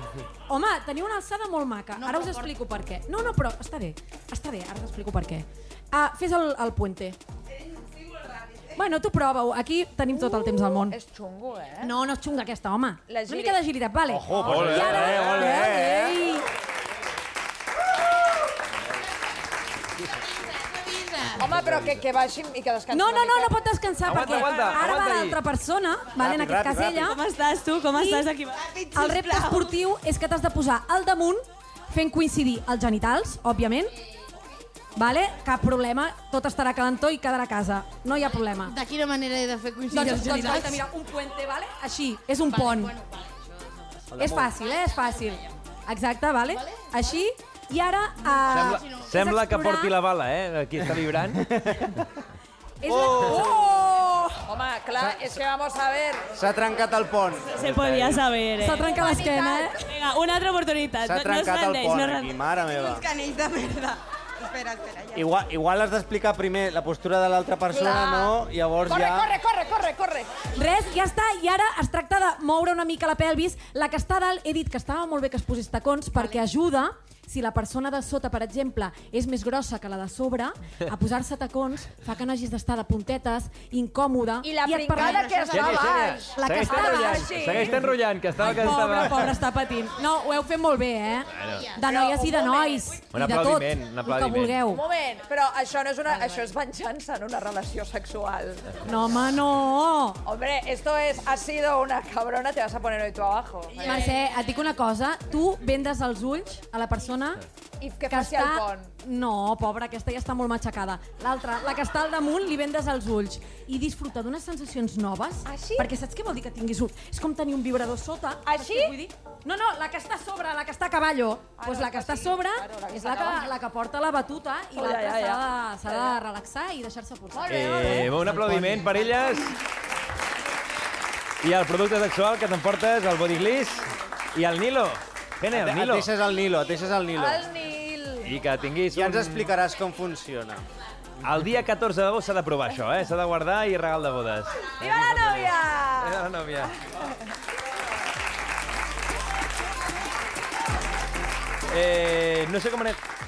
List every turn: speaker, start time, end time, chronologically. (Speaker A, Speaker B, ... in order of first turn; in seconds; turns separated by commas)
Speaker A: 0.5-7.2, Speaker B: 2.0-2.5, Speaker A: 8.8-11.0, Speaker C: 10.2-11.9, Speaker A: 11.8-16.4, Speaker C: 13.1-13.6, Speaker D: 14.1-16.2, Speaker E: 14.4-15.7, Speaker B: 20.8-21.3, Speaker C: 21.4-23.6, Speaker A: 22.9-27.2, Speaker E: 24.1-25.4, Speaker D: 26.2-27.1, Speaker F: 27.0-28.7, Speaker A: 27.9-28.3, Speaker B: 28.6-29.7, Speaker A: 28.9-33.9, Speaker A: 35.0-38.8, Speaker B: 38.6-40.9, Speaker A: 39.9-43.0, Speaker B: 42.5-43.4, Speaker D: 44.1-44.5, Speaker A: 44.2-49.9, Speaker B: 46.6-46.9, Speaker B: 48.3-49.0, Speaker E: 48.5-51.6, Speaker D: 51.4-51.9, Speaker A: 52.8-54.3, Speaker D: 52.8-53.6, Speaker C: 54.5-56.3, Speaker D: 56.3-57.7, Speaker F: 57.5-62.3, Speaker A: 58.6-59.9, Speaker D: 61.0-63.1, Speaker B: 62.8-64.0, Speaker B: 64.7-65.1, Speaker D: 65.1-69.3, Speaker C: 67.7-70.3, Speaker A: 70.5-85.8, Speaker C: 84.4-87.8, Speaker B: 84.9-86.1, Speaker E: 85.5-89.3, Speaker A: 86.3-87.8, Speaker A: 88.4-94.8, Speaker E: 91.3-91.7, Speaker C: 91.8-92.9, Speaker E: 93.1-94.6, Speaker C: 94.7-98.7, Speaker A: 98.8-100.2, Speaker C: 100.2-104.1, Speaker A: 103.8-107.4, Speaker C: 107.8-108.9, Speaker A: 108.1-128.1, Speaker C: 115.5-115.9, Speaker C: 118.5-119.0, Speaker C: 121.6-123.5, Speaker C: 124.8-126.2, Speaker C: 127.3-128.3, Speaker E: 127.5-129.5, Speaker D: 128.1-128.9, Speaker E: 131.4-136.1, Speaker D: 135.5-137.5, Speaker C: 137.2-138.3, Speaker E: 138.2-139.5, Speaker D: 138.9-140.7, Speaker E: 141.2-146.7, Speaker C: 144.8-146.2, Speaker E: 151.7-153.0